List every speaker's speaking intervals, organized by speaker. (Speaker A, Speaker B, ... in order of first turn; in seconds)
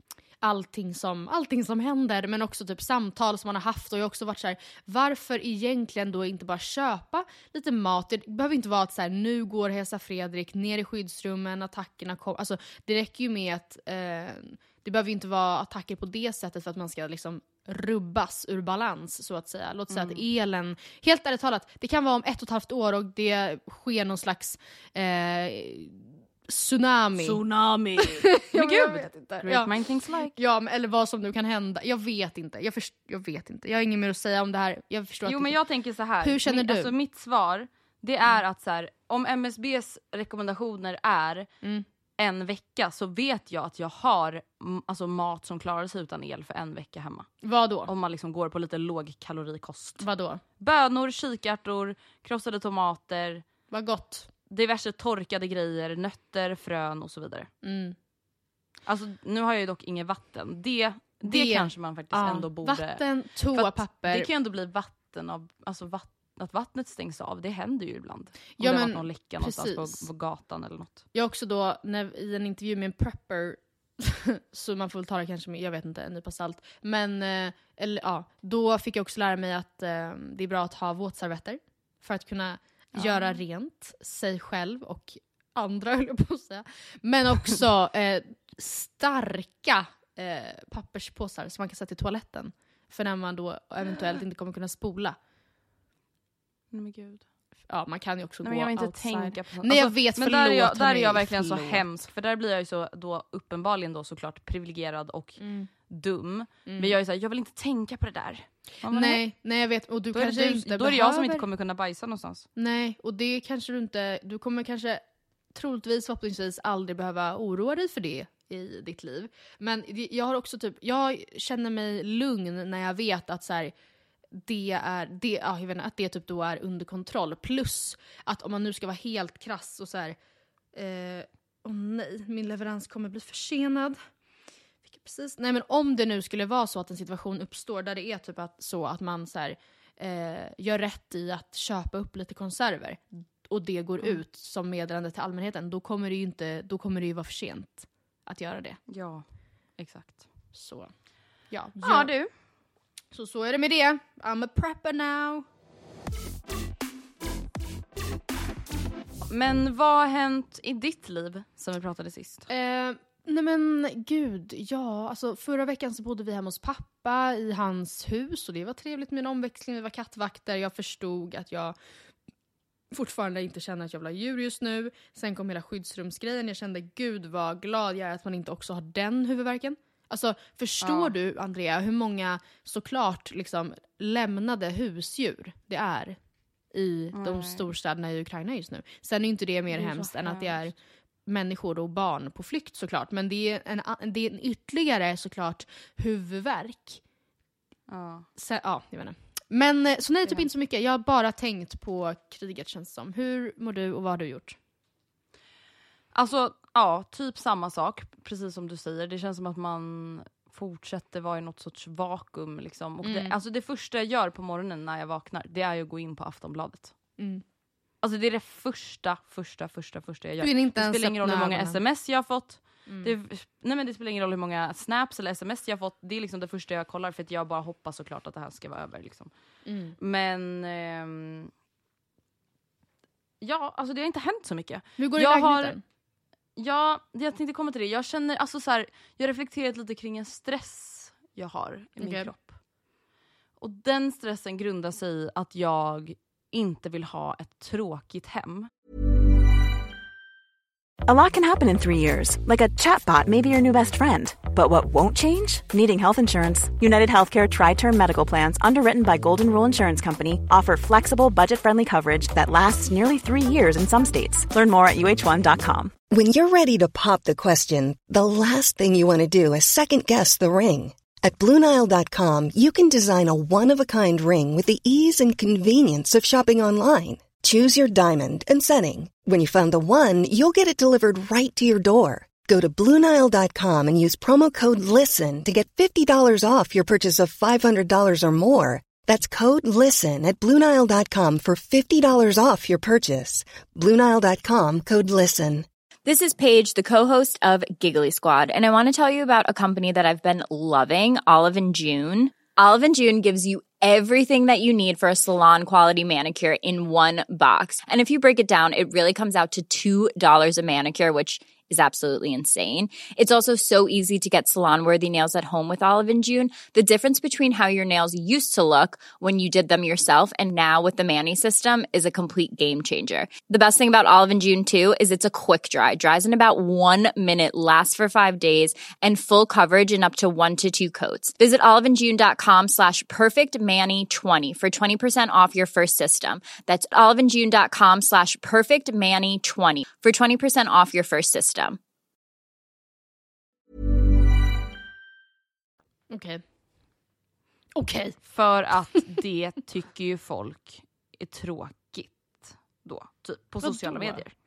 Speaker A: 0.4-27.4, 28.0-29.7, 30.2-35.5, 36.2-36.9, 47.4-47.9, 50.0-50.4, 53.7-54.3, 57.6-58.0, 61.2-64.3, 68.6-70.1, 71.1-95.2, 97.7-101.8, 105.4-105.7, 106.7-107.0, 108.9-111.4, 112.5-115.0, 115.5-123.7, 124.3-130.2, 130.7-134.0, 134.8-148.8, 150.5-150.9, 151.5-152.1, 153.1-155.4, 162.5-171.7, 172.9-186.2, 186.7-190.7, 191.3-197.0, 198.3-204.6, 213.0-213.3, 217.2-217.4, 220.4-221.8, 222.9-223.1, 229.7-229.9, 235.0-235.8, 242.0-242.3, 346.1-346.4, 347.8-348.2, 353.6-354.2
Speaker B: 19.9-20.2, 27.1-30.3, 35.2-41.5, 42.2-47.3, 47.9-50.1, 50.6-53.5, 54.5-57.5, 58.9-71.0, 82.9-83.4, 96.7-97.2, 98.4-109.2, 110.1-112.5, 148.9-149.2, 149.8-150.3, 151.8-152.3, 159.3-162.5, 180.8-181.1, 187.1-187.6, 189.7-190.6, 197.9-198.3, 206.1-216.9, 218.0-229.3, 230.0-231.5, 233.4-235.8, 236.6-242.6, 243.6-248.7, 348.3-354.3
Speaker C: 251.0-265.9
Speaker D: 266.1-295.6
Speaker E: 296.1-341.8